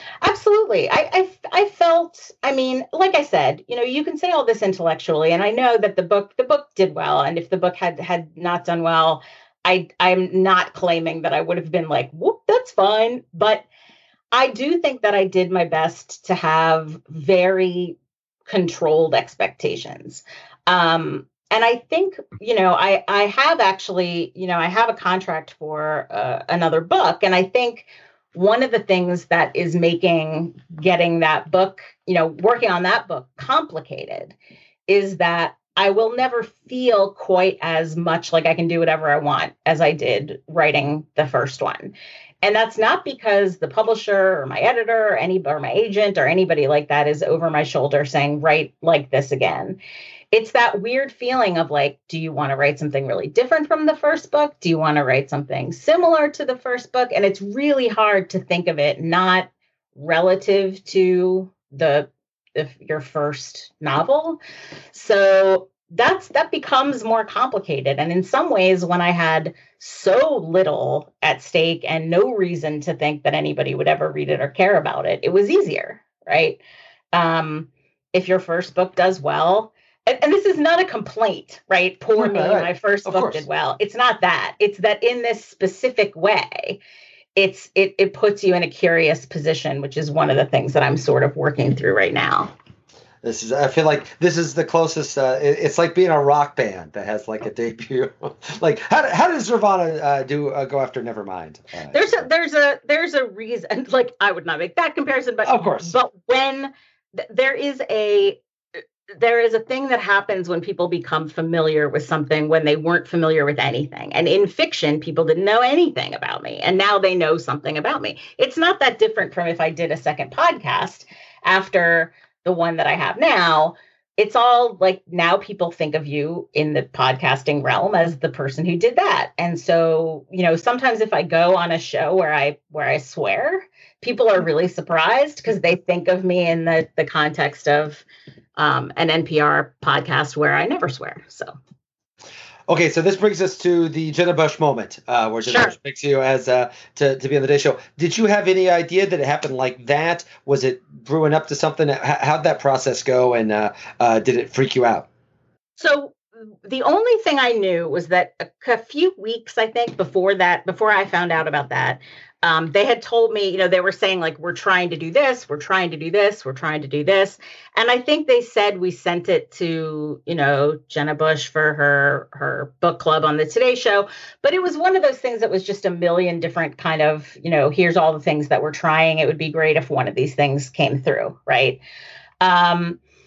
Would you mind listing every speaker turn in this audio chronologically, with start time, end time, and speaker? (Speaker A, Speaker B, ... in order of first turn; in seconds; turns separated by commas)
Speaker A: 0.2-13.6, Speaker A: 14.3-17.9, Speaker A: 18.5-34.3, Speaker A: 34.9-49.8, Speaker A: 50.3-64.4, Speaker A: 64.9-76.6, Speaker A: 77.1-86.8, Speaker B: 82.2-83.5, Speaker A: 87.3-92.5, Speaker B: 93.2-102.2, Speaker A: 101.9-108.4, Speaker B: 105.5-105.9, Speaker A: 109.2-138.0, Speaker A: 138.6-141.6, Speaker B: 142.7-155.1, Speaker A: 145.4-145.7, Speaker A: 155.8-181.8, Speaker A: 182.4-183.0